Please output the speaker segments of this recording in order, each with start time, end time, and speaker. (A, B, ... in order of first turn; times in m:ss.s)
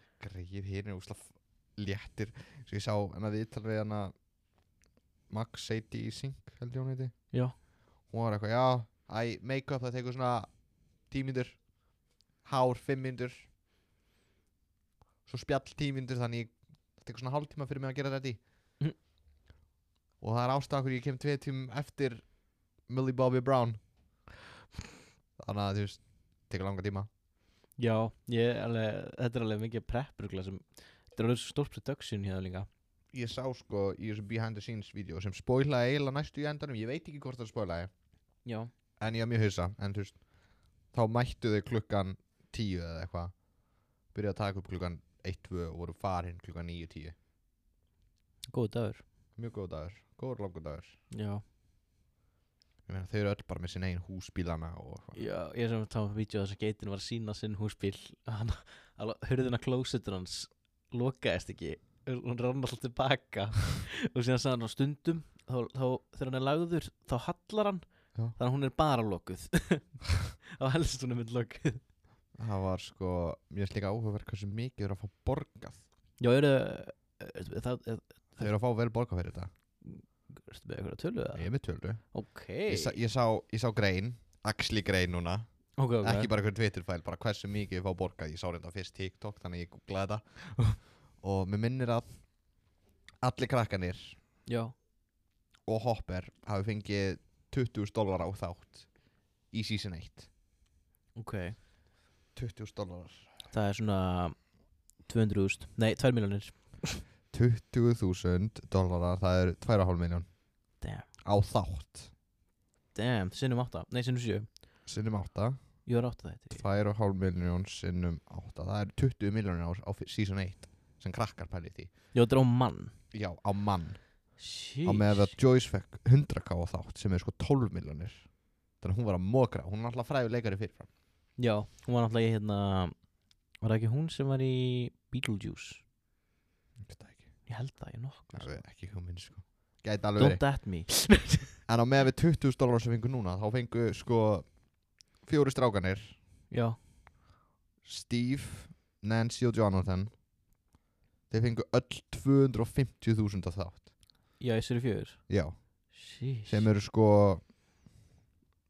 0:00.2-0:04.1 A
0:05.3-0:07.2 A
0:08.1-0:10.5 A
0:11.1-0:11.6 A
0:12.4-0:13.5 A
0:15.3-0:18.4 A
0:20.2-0:22.3 A
0:22.9-0:23.8 A
0:25.4-0:27.1 A
0:27.8-0:32.7 B
0:33.1-0:37.9 A
0:38.4-0:38.7 B
0:39.0-0:40.2 A
0:40.9-0:43.3 A
0:44.1-0:47.2 A
0:48.5-0:49.0 B
0:49.4-0:51.0 A
0:51.1-0:51.4 B
0:52.9-0:55.2 A
0:55.1-1:11.8 B
1:12.4-1:15.8 A
1:16.2-1:18.5 B
1:18.4-1:19.5 A
1:19.8-1:21.5 B
1:21.4-1:22.0 A
1:22.1-1:23.0 B
1:22.7-1:25.4 A
1:25.8-1:26.3 B
1:26.0-1:32.1 A
1:33.2-1:34.2 A
1:34.5-1:34.7 B
1:35.7-1:38.9 A
1:39.5-1:40.3 A
1:41.2-1:41.6 B
1:42.4-1:43.3 A
1:43.5-1:44.4 B
1:45.0-1:47.0 B
1:47.3-1:50.3 A
1:50.8-1:51.1 B
1:51.2-1:52.1 A
1:53.0-1:54.5 B
1:54.9-1:55.6 A
1:55.8-1:56.7 B
1:56.5-2:01.9 A
2:02.1-2:02.9 B
2:03.1-2:04.0 A
2:04.4-2:05.4 B
2:04.8-2:08.3 A
2:08.8-2:10.9 A
2:11.4-2:13.0 B
2:13.6-2:15.8 B
2:16.8-2:17.3 A
2:17.5-2:18.6 B
2:18.3-2:20.4 A
2:20.2-2:21.5 B
2:21.7-2:24.5 A
2:25.2-2:26.2 A
2:26.5-2:26.8 B
2:27.8-2:30.1 A
2:31.3-2:33.9 A
2:34.4-2:35.2 B
2:35.3-2:35.6 A
2:35.9-2:36.7 B
2:36.5-2:37.4 A